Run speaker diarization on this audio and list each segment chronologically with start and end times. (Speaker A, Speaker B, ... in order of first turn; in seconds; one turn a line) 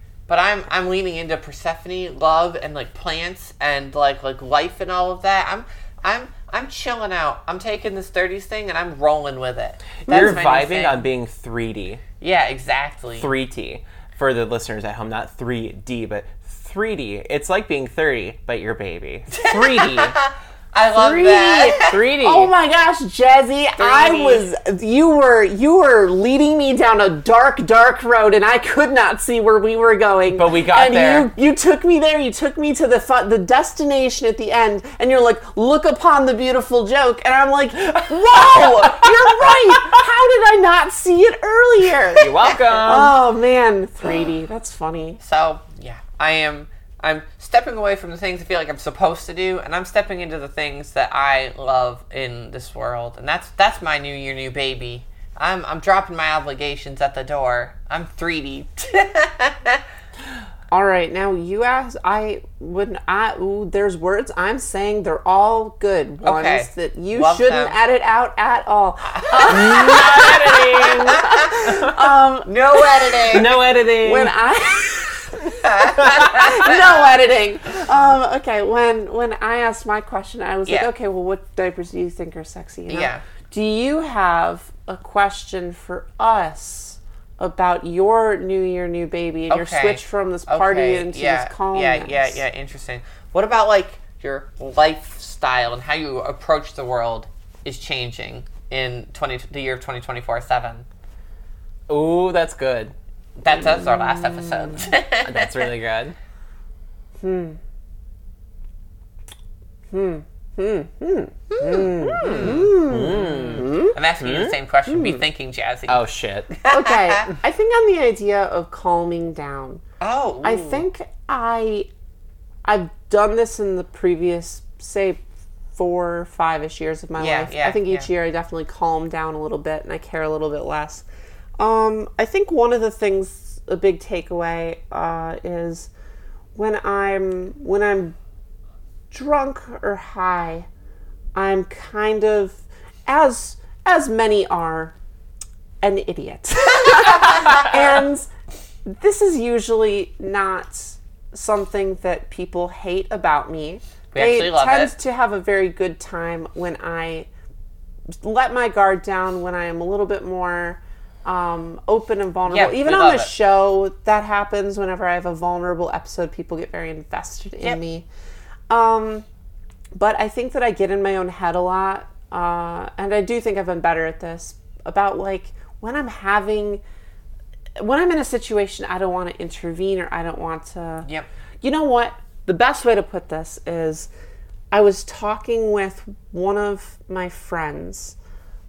Speaker A: 0.3-11.1
Speaker B: 10.1-12.0
Speaker C: 10.1-10.4
Speaker A: 12.2-13.3
Speaker B: 13.2-20.1
Speaker A: 19.3-22.0
Speaker C: 20.9-45.2
Speaker B: 21.8-22.5
Speaker A: 23.8-24.4
Speaker B: 30.3-31.3
Speaker B: 38.5-39.1
Speaker B: 42.2-43.2
Speaker A: 45.2-59.8
Speaker C: 60.7-73.3
Speaker A: 66.2-67.8
Speaker A: 69.3-70.1
Speaker B: 69.5-72.0
Speaker A: 72.5-73.6
Speaker B: 73.3-74.3
Speaker C: 74.0-92.4
Speaker A: 75.6-76.8
Speaker A: 82.9-83.2
Speaker A: 89.5-100.8
Speaker B: 101.9-102.9
Speaker A: 103.4-105.7
Speaker B: 105.2-106.2
Speaker C: 107.2-107.6
Speaker C: 109.9-114.0
Speaker A: 111.5-116.0
Speaker B: 112.2-114.5
Speaker C: 114.9-115.2
Speaker B: 115.9-116.5
Speaker A: 116.6-117.2
Speaker C: 116.7-119.8
Speaker A: 120.0-120.8
Speaker C: 120.4-121.9
Speaker C: 122.7-125.2
Speaker C: 125.8-131.1
Speaker A: 127.2-128.1
Speaker C: 131.6-135.9
Speaker C: 136.6-138.2
Speaker C: 139.1-140.7
Speaker C: 141.3-144.9
Speaker C: 145.8-148.3
Speaker C: 148.9-157.3
Speaker A: 154.1-154.9
Speaker C: 158.2-168.1
Speaker A: 162.5-163.3
Speaker C: 168.7-169.2
Speaker C: 169.9-176.8
Speaker C: 177.8-181.1
Speaker C: 181.6-184.1
Speaker C: 184.7-188.2